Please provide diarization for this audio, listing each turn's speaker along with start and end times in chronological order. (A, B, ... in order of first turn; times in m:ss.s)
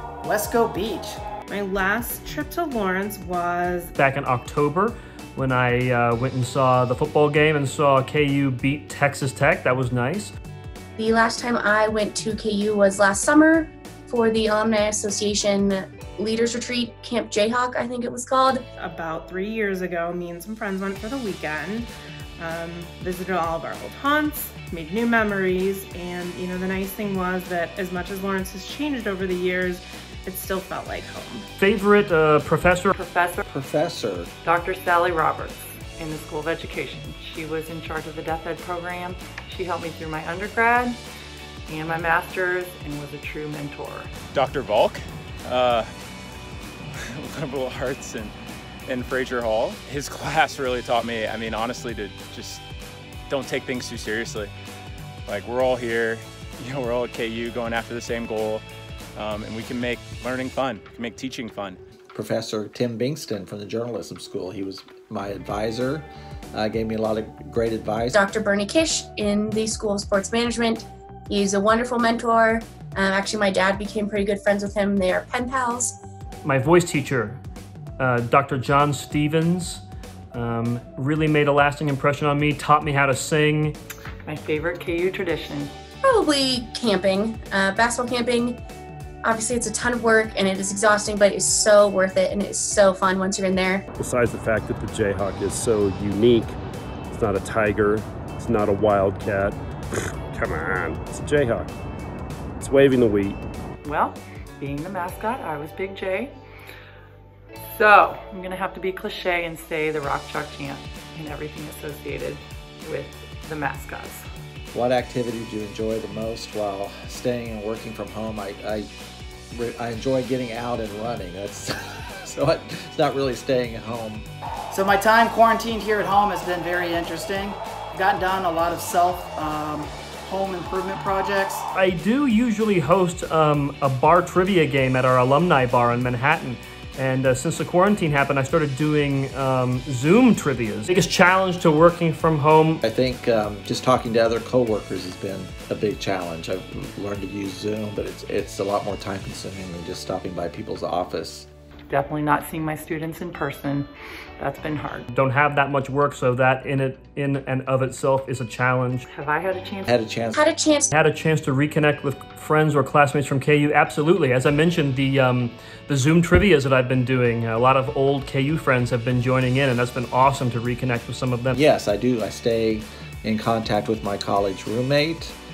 0:00.2-0:01.2 A
0:01.5-0:03.9 B
0:04.0-0:10.3 C
0:11.0-0:18.6 D
0:18.8-0:31.4 B
0:31.6-0:32.9 C
0:32.9-0:33.4 E
0:33.5-0:34.3 F
0:34.4-0:41.0 E
0:41.7-0:44.1 E
0:44.3-0:45.9 G
0:47.1-0:48.3 G
0:48.9-0:52.6 G
0:53.3-0:54.5 G
0:55.3-0:58.6 G
0:59.2-1:01.8 G
1:02.1-1:08.2 F
1:08.1-1:16.0 D
1:16.4-1:17.4 C
1:18.0-1:23.8 C
1:24.2-1:25.7 E
1:26.0-1:28.6 D
1:29.2-1:33.8 D
1:34.0-1:36.6 H
1:37.1-1:41.7 H
1:42.6-1:43.4 H
1:43.8-1:46.3 E
1:47.6-1:54.2 E
1:54.7-1:58.9 F
1:59.5-2:04.3 F
2:04.7-2:11.6 A
2:11.7-2:22.8 C
2:22.8-2:31.5 F
2:31.9-2:35.1 E
2:35.1-2:39.0 C
2:39.1-2:39.9 E
2:39.9-2:40.4 F
2:40.3-2:40.9 D
2:40.9-2:51.6 C
2:51.5-2:55.4 F